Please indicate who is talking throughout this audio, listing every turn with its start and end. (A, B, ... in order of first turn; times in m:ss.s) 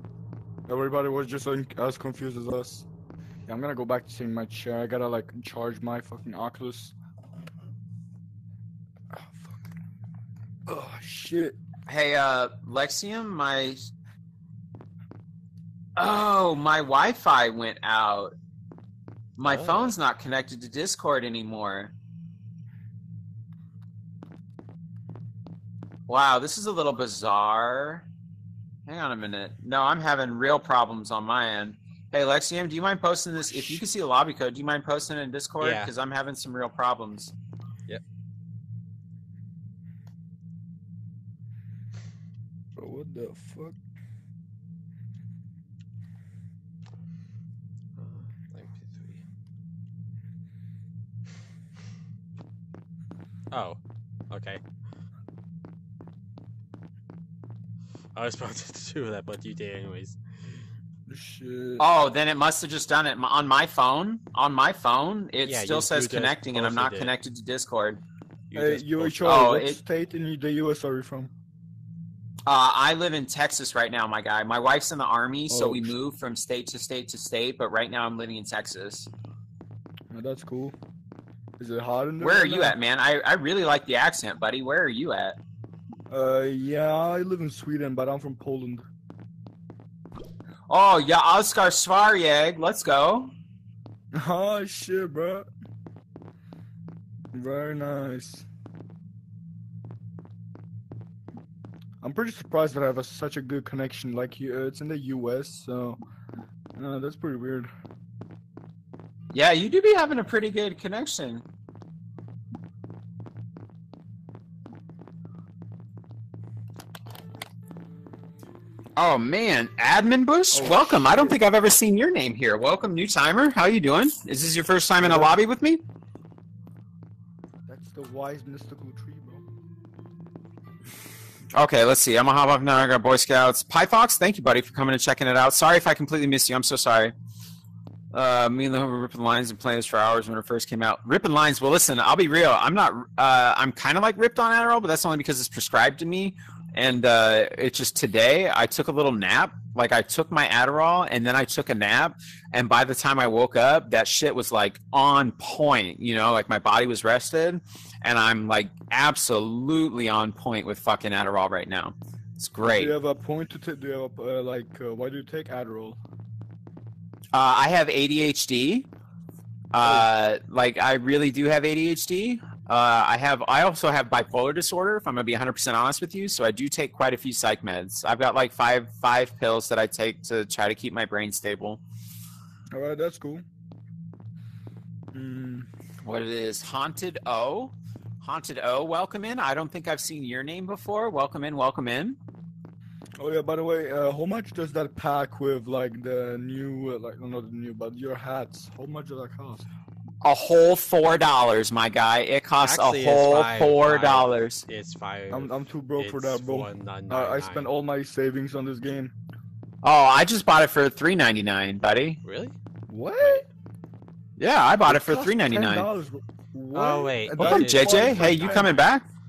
0:00.7-0:02.9 A
0:03.5-0:06.9 A
0:10.7-0:11.6 A
0:11.9-0:13.9 B
0:16.0-0:18.3 B
0:19.4-0:21.9 B
0:19.4-0:20.0 C
0:26.1-0:28.1 B
0:28.9-0:37.3 B
0:35.6-0:35.9 C
0:42.8-0:43.8 A
0:48.0-0:49.2 C
0:53.5-0:53.8 C
0:54.3-0:54.6 C
0:58.2-1:00.2 C
1:01.1-1:01.9 A
1:01.8-1:08.0 B
1:05.4-1:07.1 C
1:08.5-1:09.4 C
1:08.5-1:11.3 A
1:08.8-1:09.8 B
1:12.5-1:19.1 B
1:15.5-1:16.0 A
1:20.1-1:20.8 A
1:21.6-1:22.8 A
1:22.2-1:25.4 B
1:26.1-1:28.9 A
1:30.7-1:33.3 B
1:34.1-1:35.5 A
1:37.3-1:38.5 A
1:42.0-1:46.0 A
1:46.8-1:47.7 A
1:49.3-1:51.4 B
1:59.0-2:05.8 B
2:00.5-2:01.4 A
2:05.0-2:05.4 A
2:07.7-2:09.4 A
2:11.5-2:17.1 B
2:18.1-2:43.0 B
2:42.6-2:46.0 A
2:47.3-2:48.9 B
2:49.7-3:01.8 B
2:49.8-2:50.1 A
3:02.7-3:03.4 A
3:05.1-3:05.7 A
3:06.0-3:12.2 B
3:13.2-3:19.7 A
3:20.2-3:24.6 B
3:22.6-3:27.7 C
3:25.3-3:29.1 A
3:29.8-3:32.2 B
3:32.2-3:32.6 C
3:32.9-3:33.5 A
3:33.2-3:33.4 C
3:34.4-3:35.9 B
3:34.9-3:38.7 A
3:36.7-3:38.8 C
3:37.4-3:39.1 B